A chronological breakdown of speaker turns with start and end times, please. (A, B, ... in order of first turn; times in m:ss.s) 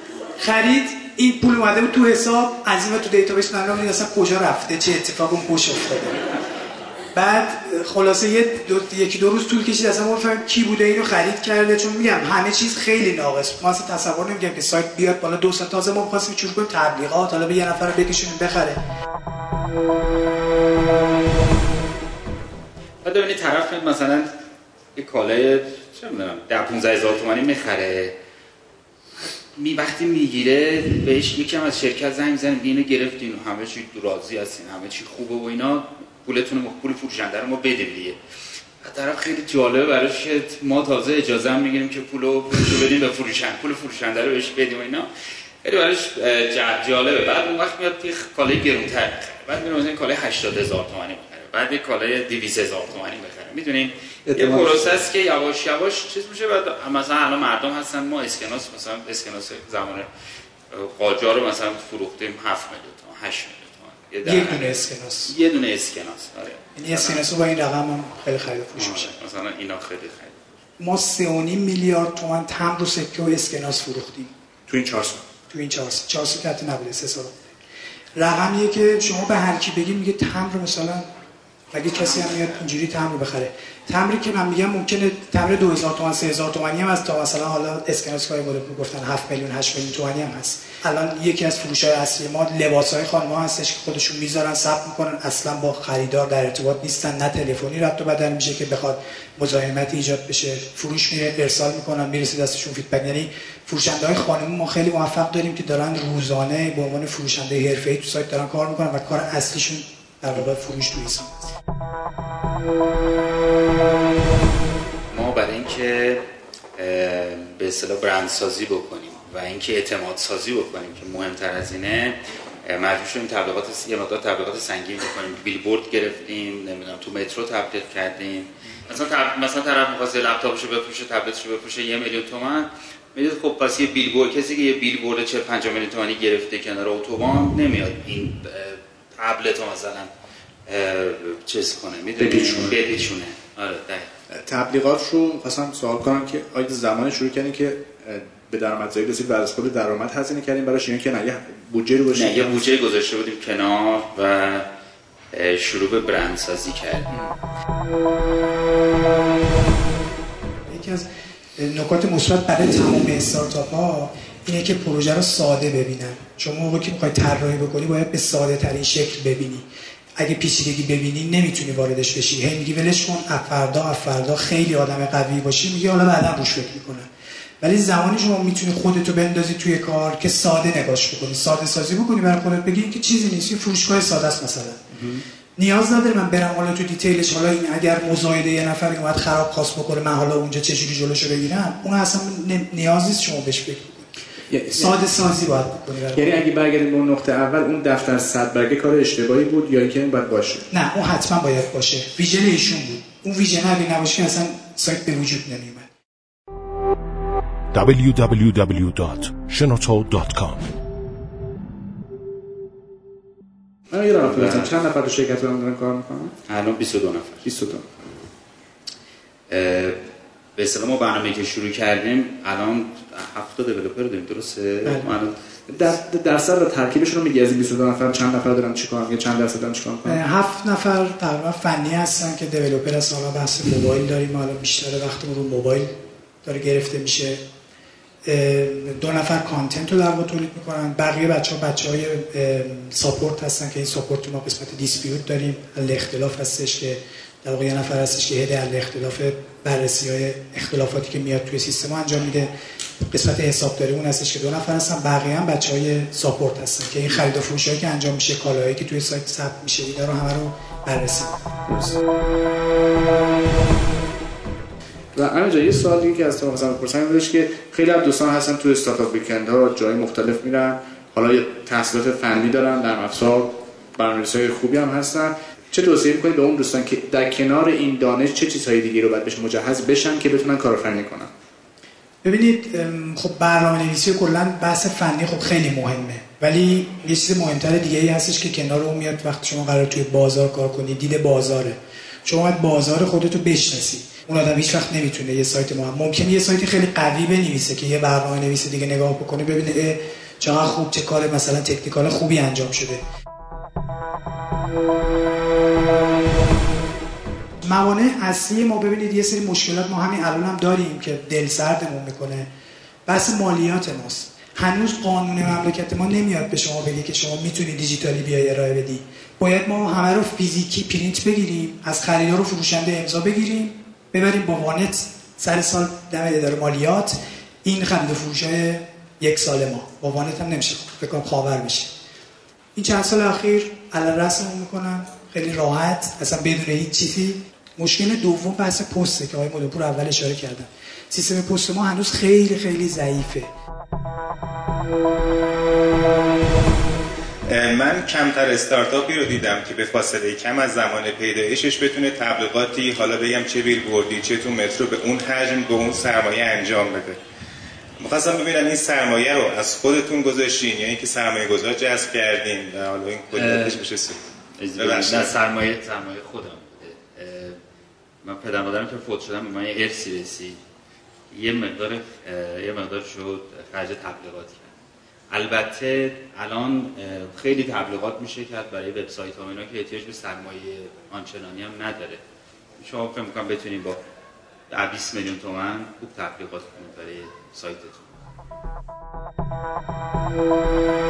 0:00.4-0:06.2 A
0:07.1-0:18.8 A
0:23.0-0:24.3 B
0:25.0-0:28.1 B
0:29.2-0:38.2 B
0:38.8-0:45.1 B
0:45.6-1:00.1 B
0:54.3-0:55.0 C
1:00.7-1:07.3 B
1:04.2-1:05.3 A
1:06.8-1:09.1 A
1:08.8-1:10.4 B
1:10.8-1:14.3 A
1:14.7-1:15.2 C
1:15.5-1:17.3 A
1:18.2-1:21.1 A
1:21.7-1:51.4 A
1:22.0-1:22.4 B
1:55.1-1:56.2 B
1:56.8-2:20.1 B
2:20.7-2:24.1 B
2:22.2-2:22.8 C
2:24.3-2:32.6 C
2:32.1-2:34.7 B
2:35.3-2:37.3 B
2:40.7-2:49.7 A
2:50.2-2:57.1 A
2:57.6-3:04.8 A
3:05.6-3:14.1 A
3:14.5-3:15.0 C
3:14.8-3:16.4 A
3:16.1-3:20.6 C
3:20.7-3:25.9 A
3:27.7-3:30.6 D
3:33.9-3:36.3 C
3:34.2-3:34.7 B
3:36.5-3:37.5 B
3:37.4-3:38.1 C
3:39.5-3:40.0 B
3:40.6-3:45.4 B
3:45.7-3:50.2 C
3:50.1-3:57.4 A
3:58.2-4:21.4 A
4:21.7-4:22.0 C
4:25.2-4:41.3 C
4:42.2-5:03.0 A
5:07.6-5:12.5 A
5:13.1-5:31.9 A
5:32.8-5:43.5 A
5:47.5-5:57.2 E
5:58.0-6:04.2 E
6:03.3-6:03.9 B
6:04.6-6:07.6 B
6:04.8-6:05.4 E
6:08.2-6:10.6 B
6:11.3-6:14.7 B
6:15.3-6:22.2 B
6:22.8-6:24.0 B
6:24.7-6:28.1 B